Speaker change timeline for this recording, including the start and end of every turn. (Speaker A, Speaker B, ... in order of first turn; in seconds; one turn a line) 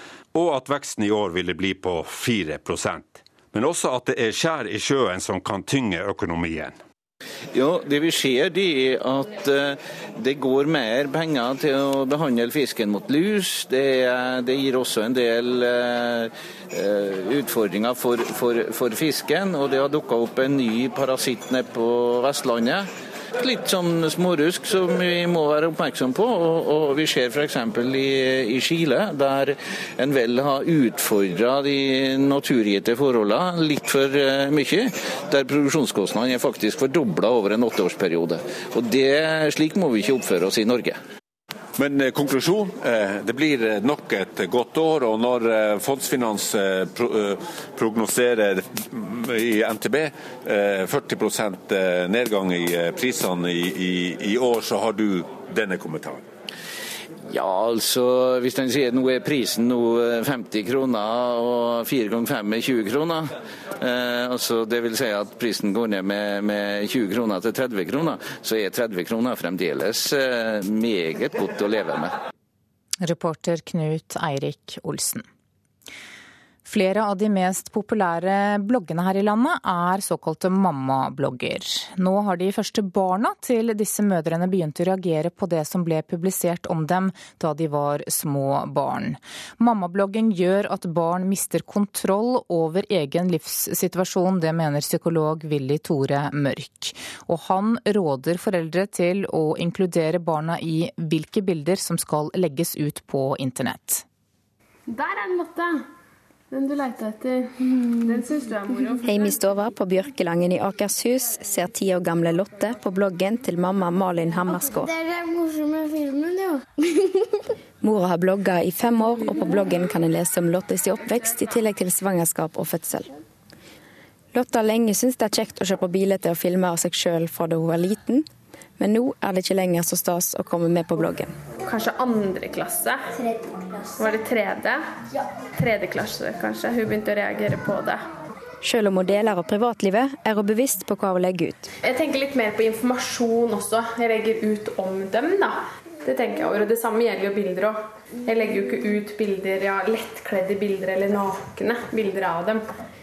Speaker A: 0.3-6.8
Speaker B: 7.5-22.9
Speaker B: 23.4-41.0
Speaker A: 41.8-56.2
Speaker B: 57.3-72.1
Speaker C: 73.0-75.2
Speaker C: 76.6-104.0
Speaker D: 104.9-105.8
Speaker D: 106.5-109.2
Speaker E: 109.0-114.9
Speaker E: 117.8-123.1
Speaker E: 124.3-128.2
Speaker E: 128.8-131.3
Speaker D: 131.6-133.0
Speaker D: 133.9-134.8
Speaker D: 135.5-138.0
Speaker E: 138.6-141.7
Speaker D: 141.8-152.6